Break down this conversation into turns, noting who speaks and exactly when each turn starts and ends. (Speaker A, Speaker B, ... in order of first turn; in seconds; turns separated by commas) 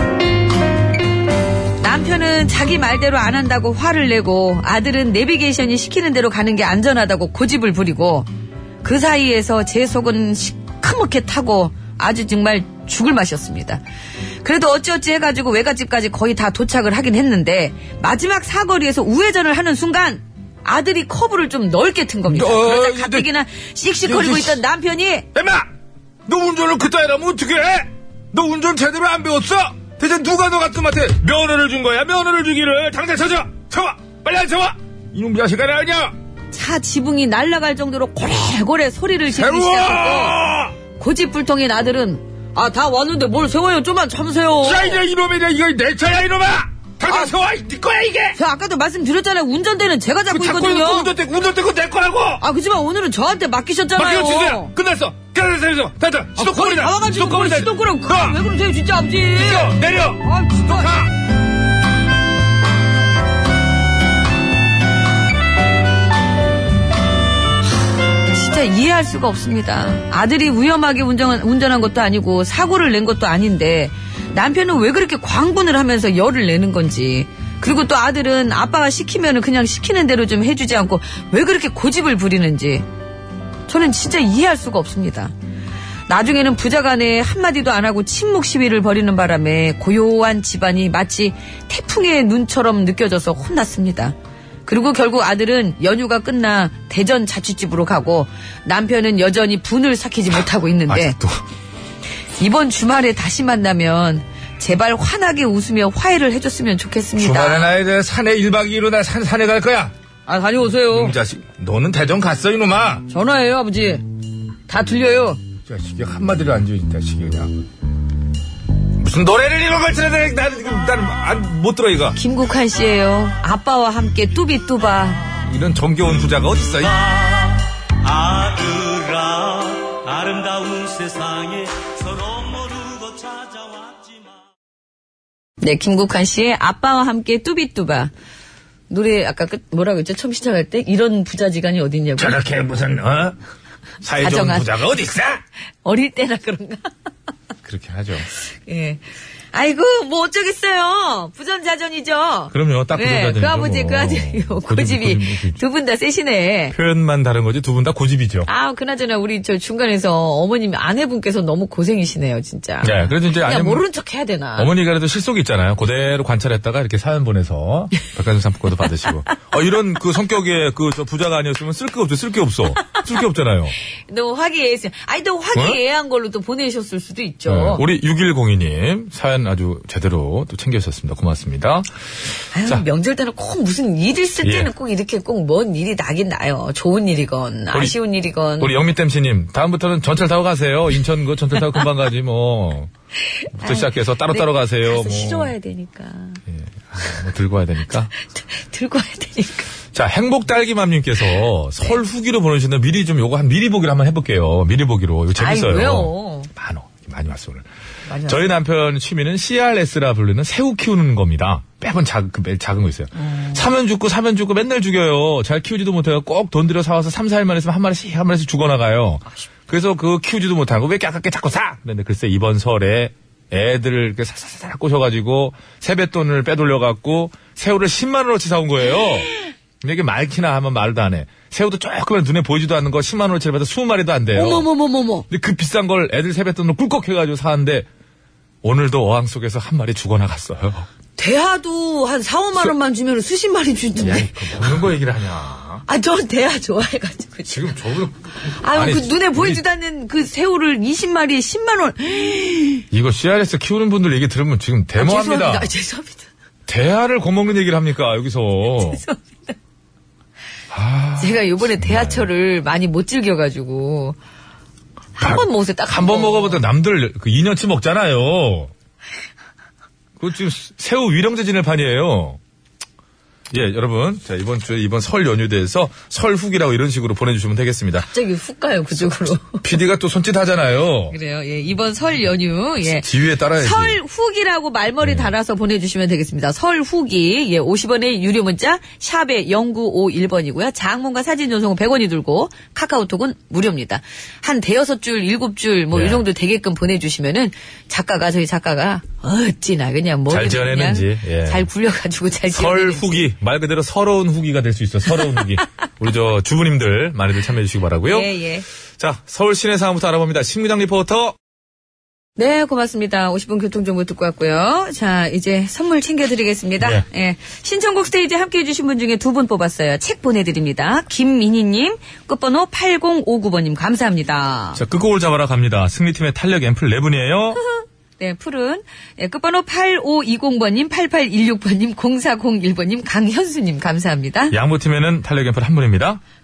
Speaker A: 1.8-8.3, Speaker A: 8.8-13.8, Speaker A: 14.4-25.3, Speaker B: 22.3-23.3, Speaker B: 24.0-24.6, Speaker B: 25.3-25.7, Speaker B: 26.3-36.1, Speaker A: 36.5-40.4, Speaker B: 39.3-40.7, Speaker A: 41.0-45.0, Speaker B: 44.6-48.4, Speaker A: 47.1-47.3, Speaker A: 48.4-51.1, Speaker B: 50.3-52.4, Speaker A: 52.4-54.7, Speaker B: 54.0-58.4, Speaker A: 56.4-60.9, Speaker B: 59.3-61.1, Speaker A: 68.3-82.9, Speaker A: 83.7-85.3, Speaker A: 86.1-94.2, Speaker A: 94.7-101.2, Speaker B: 100.9-101.4, Speaker A: 102.4-107.7, Speaker B: 107.2-109.9, Speaker A: 110.3-111.2, Speaker B: 110.9-113.0, Speaker A: 113.1-114.1, Speaker A: 114.7-115.4, Speaker B: 115.7-117.5, Speaker B: 119.0-122.2, Speaker A: 122.2-125.2, Speaker B: 125.5-127.1, Speaker C: 128.1-134.3, Speaker B: 129.0-129.4, Speaker A: 135.6-138.1, Speaker A: 138.9-142.4, Speaker B: 142.2-143.4, Speaker B: 144.0-145.4, Speaker A: 144.2-144.8, Speaker A: 145.8-146.9, Speaker B: 147.7-148.3, Speaker A: 148.7-149.0, Speaker A: 149.5-156.8, Speaker B: 152.5-155.6, Speaker B: 156.7-158.5, Speaker A: 158.5-164.7, Speaker B: 162.8-163.8, Speaker B: 164.6-173.7, Speaker A: 174.1-177.8, Speaker B: 177.5-181.9, Speaker A: 182.5-188.8, Speaker B: 184.4-184.7, Speaker B: 188.6-192.9, Speaker A: 193.5-196.4, Speaker B: 193.6-195.5, Speaker B: 196.5-198.1, Speaker A: 198.2-199.7, Speaker B: 199.9-207.7, Speaker A: 205.4-206.5, Speaker A: 208.1-208.6, Speaker B: 208.3-229.3, Speaker A: 213.2-213.7, Speaker B: 229.8-234.7, Speaker A: 234.3-235.2, Speaker B: 235.3-237.9, Speaker B: 238.6-240.9, Speaker A: 241.2-244.5, Speaker B: 244.0-245.8, Speaker A: 245.9-247.9, Speaker B: 247.5-248.1, Speaker A: 248.4-252.8, Speaker B: 248.7-249.6, Speaker B: 252.9-255.7, Speaker A: 254.9-256.3, Speaker B: 256.7-259.0, Speaker A: 258.6-259.6, Speaker B: 260.7-262.3, Speaker A: 261.2-264.2, Speaker A: 265.2-266.6, Speaker B: 265.2-268.7, Speaker B: 270.2-272.4, Speaker B: 273.5-278.1, Speaker A: 277.9-279.7, Speaker B: 279.6-281.1, Speaker A: 281.1-303.3, Speaker B: 283.0-284.0, Speaker B: 285.0-285.3, Speaker B: 295.9-296.2, Speaker B: 300.3-301.6, Speaker B: 302.5-308.3, Speaker A: 308.1-308.6, Speaker B: 309.0-311.4, Speaker A: 312.4-324.8, Speaker B: 324.8-327.6, Speaker A: 327.6-334.6, Speaker B: 334.5-336.2